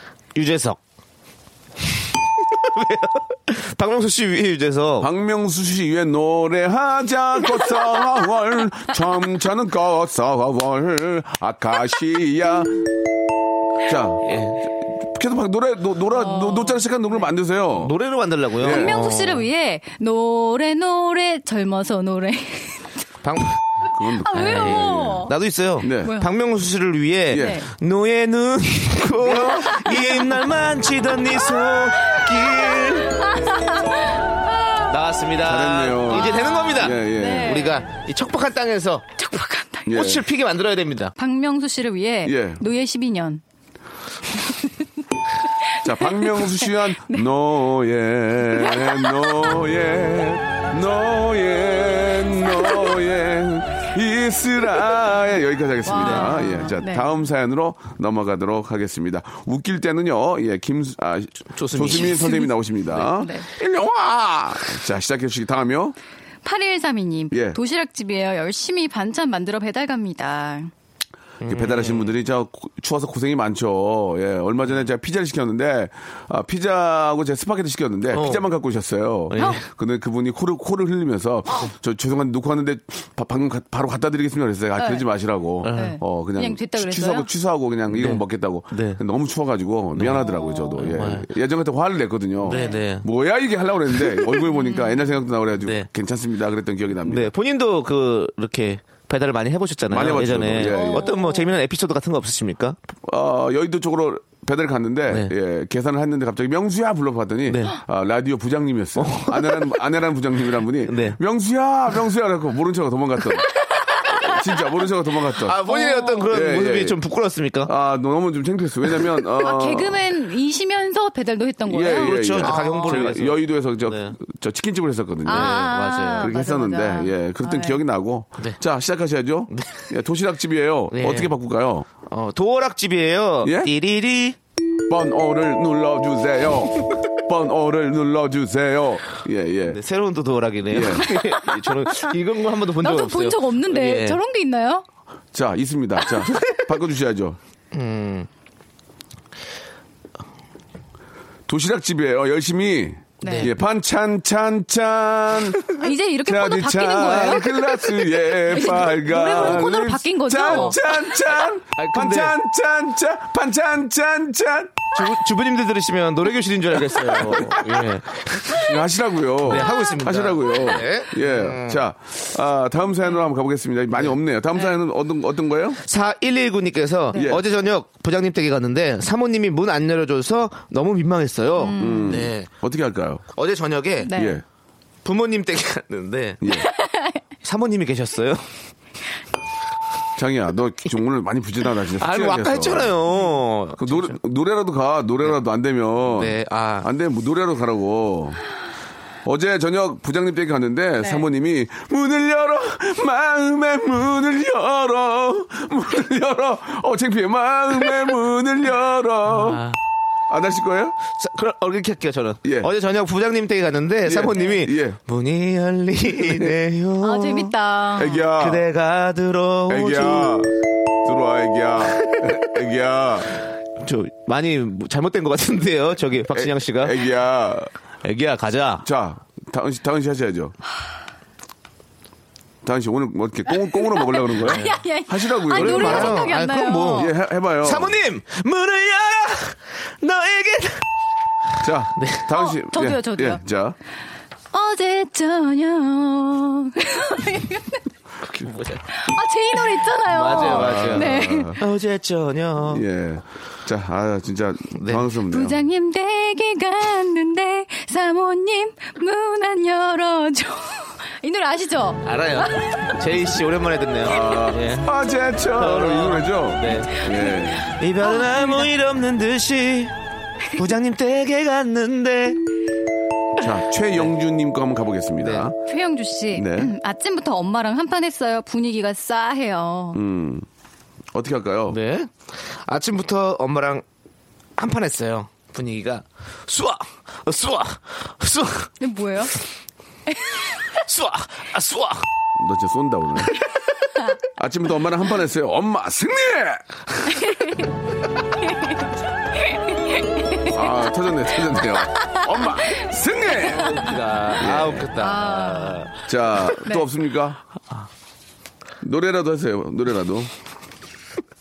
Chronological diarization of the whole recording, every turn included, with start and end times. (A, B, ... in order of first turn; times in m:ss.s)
0:00.4-0:00.8 A
0:02.4-0:05.1 A
0:05.0-0:12.8 B
0:13.8-0:14.2 B
0:14.2-0:14.6 A
0:14.9-0:17.9 B
0:16.1-0:16.9 C
0:17.8-0:19.5 A
0:18.6-0:19.0 B
0:18.6-0:22.9 C
0:23.2-0:23.6 A
0:23.9-0:25.2 B
0:24.2-0:25.3 C
0:24.3-0:33.3 A
0:25.8-0:26.2 B
0:26.0-0:26.3 C
0:27.3-0:27.6 B
0:27.3-0:27.7 C
0:29.2-0:29.8 B
0:29.6-0:30.2 C
0:31.5-0:34.9 C
0:34.9-0:39.1 A
0:35.4-0:37.7 B
0:36.1-0:37.9 C
0:39.2-0:40.0 C
0:39.9-0:40.3 B
0:39.9-0:41.1 A
0:41.2-0:43.4 C
0:42.2-0:42.6 B
0:44.4-0:44.7 C
0:45.7-0:47.2 C
0:45.8-1:06.0 B
0:48.6-0:49.6 C
0:55.9-0:57.1 C
0:56.0-0:56.3 A
1:01.5-1:02.5 A
1:02.0-1:02.4 C
1:03.2-1:03.5 C
1:06.4-1:10.7 C
1:07.3-1:07.6 B
1:11.4-1:12.2 A
1:11.5-1:37.3 B
1:18.1-1:18.5 A
1:19.3-1:19.6 A
1:24.8-1:25.1 C
1:25.6-1:26.0 A
1:25.7-1:27.3 C
1:27.9-1:29.0 A
1:30.0-1:31.3 A
1:30.3-1:30.8 C
1:32.4-1:33.1 A
1:32.5-1:32.8 C
1:34.5-1:35.1 C
1:35.6-1:35.9 A
1:37.0-1:42.8 A
1:39.9-1:41.1 B
1:40.6-1:41.5 C
1:43.1-1:55.6 B
1:45.1-1:45.3 A
1:47.5-1:47.8 A
1:49.0-1:49.8 A
1:50.8-1:51.2 A
1:55.4-1:57.7 A
1:55.7-1:56.3 C
1:56.3-1:57.0 B
1:57.7-2:00.0 B
1:59.4-2:03.1 C
2:01.7-2:11.9 B
2:02.0-2:04.2 A
2:05.3-2:06.3 A
2:05.3-2:07.8 C
2:09.5-2:09.8 A
2:10.9-2:11.3 A
2:12.1-2:14.4 A
2:13.4-2:13.7 B
2:14.9-2:19.8 B
2:19.7-2:24.2 A
2:20.7-2:21.2 B
2:21.9-2:22.1 C
2:22.8-2:24.8 C
2:25.3-2:27.4 B
2:27.7-2:28.3 A
2:31.5-2:35.7 B
2:33.2-2:33.5 C
2:33.2-2:33.5 A
2:35.8-2:40.8 C
2:36.2-2:44.9 B
2:40.5-2:40.7 A
2:41.8-2:42.4 A
2:44.9-2:48.7 A
2:46.9-2:47.8 B
2:48.5-2:55.8 B
2:49.4-2:51.8 A
2:55.8-3:02.5 A
2:57.1-2:57.4 B
3:01.6-3:02.2 C
3:01.8-3:03.3 B
3:03.4-3:04.1 A
3:04.1-3:04.4 C
3:04.1-3:04.4 B
3:05.0-3:06.4 A
3:06.4-3:06.7 B
3:06.6-3:07.2 C
3:07.4-3:08.5 A
3:10.2-3:13.0 B
3:12.0-3:14.2 A
3:13.8-3:18.4 B
3:16.1-3:16.9 A
3:19.2-3:29.6 B
3:29.3-3:29.8 A
3:30.3-3:31.0 B
3:31.1-3:37.5 A
3:32.4-3:32.7 B
3:34.1-3:35.0 B
3:36.2-3:36.5 B
3:37.0-3:38.2 C
3:38.0-3:38.7 B
3:38.4-3:40.4 A
3:39.7-3:40.5 B
3:41.0-3:43.3 B
3:42.0-3:42.3 A
3:43.8-3:47.0 A
3:46.3-3:47.7 B
3:48.0-3:48.9 A
3:48.8-3:50.5 B
3:52.6-3:56.3 B
3:53.7-3:57.1 C
3:55.5-4:00.8 A
3:57.0-3:58.0 B
4:01.6-4:03.8 B
4:02.0-4:02.3 A
4:02.3-4:03.4 C
4:04.5-4:07.8 C
4:08.2-4:08.9 A
4:08.9-4:11.6 C
4:10.0-4:12.8 A
4:10.3-4:11.6 B
4:12.7-4:15.6 B
4:14.8-4:15.1 A
4:15.3-4:23.0 C
4:22.0-4:24.9 A
4:24.0-4:27.7 B
4:25.5-4:27.0 A
4:27.0-4:28.7 C
4:27.7-4:29.9 A
4:30.5-4:32.4 A
4:33.4-4:35.6 B
4:35.2-4:35.5 A
4:35.7-4:40.0 C
4:36.3-4:36.7 B
4:39.9-4:40.5 B
4:41.1-4:41.8 B
4:41.7-4:43.8 A
4:44.6-4:48.7 A
4:48.8-4:49.4 C
4:50.1-4:50.6 C
4:50.6-4:52.1 A
4:52.4-4:53.4 B
4:54.2-4:57.2 B
4:59.4-5:00.5 C
5:00.5-5:03.8 B
5:03.4-5:05.9 A
5:04.4-5:04.9 B
5:05.0-5:05.9 C
5:06.0-5:07.4 B
5:08.8-5:10.3 B